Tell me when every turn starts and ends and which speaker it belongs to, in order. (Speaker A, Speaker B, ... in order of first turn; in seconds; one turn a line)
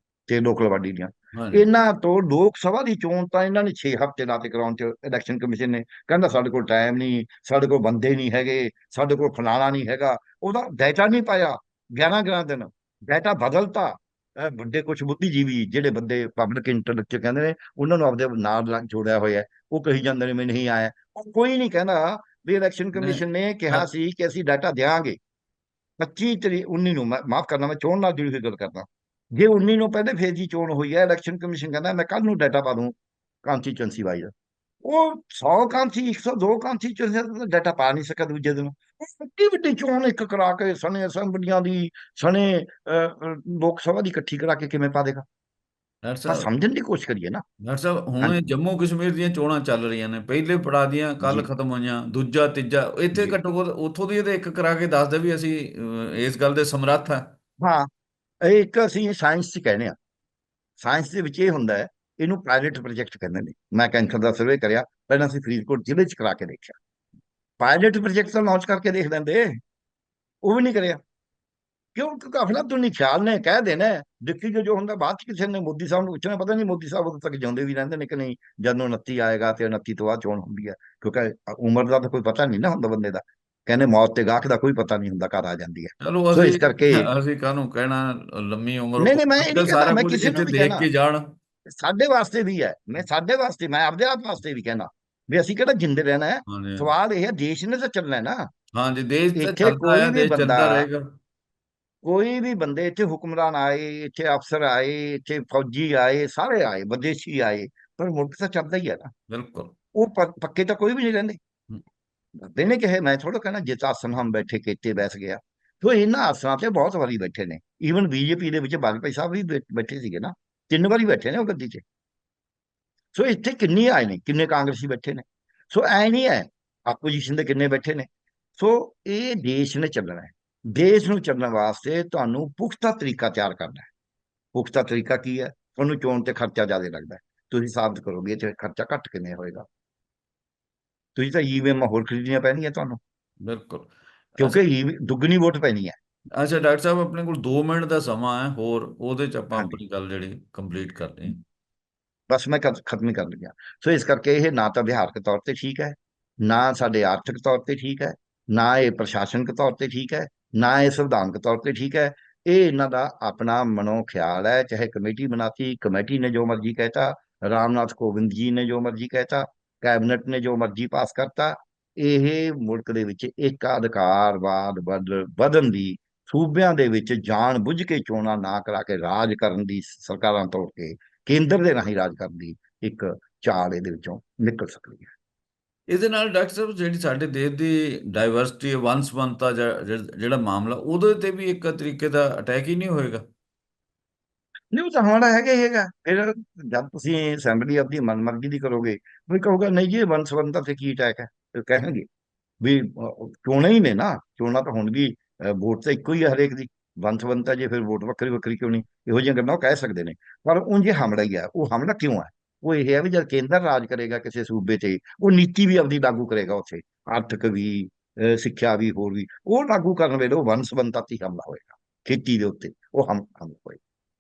Speaker A: 0.3-25.2
Speaker B: 1.4-1.7
Speaker B: 22.9-23.9
Speaker A: 26.0-34.3
Speaker A: 34.9-45.2
Speaker B: 46.0-46.5
Speaker A: 46.3-47.4
Speaker B: 47.6-57.3
Speaker A: 51.2-51.5
Speaker A: 57.6-57.9
Speaker A: 58.4-60.0
Speaker A: 60.8-66.8
Speaker A: 67.6-69.6
Speaker A: 70.4-71.0
Speaker A: 72.0-87.1
Speaker B: 86.0-91.3
Speaker A: 89.0-90.9
Speaker A: 91.7-98.5
Speaker B: 96.5-96.9
Speaker B: 98.7-101.1
Speaker A: 99.3-100.9
Speaker A: 102.0-109.1
Speaker B: 109.3-109.7
Speaker A: 110.0-111.4
Speaker A: 112.4-121.8
Speaker A: 123.1-133.9
Speaker A: 134.5-139.7
Speaker A: 141.2-143.0
Speaker B: 143.4-144.6
Speaker A: 144.4-146.0
Speaker B: 146.4-151.4
Speaker A: 149.5-149.8
Speaker A: 152.3-185.1
Speaker B: 185.9-193.2
Speaker A: 194.7-202.1
Speaker A: 202.6-223.8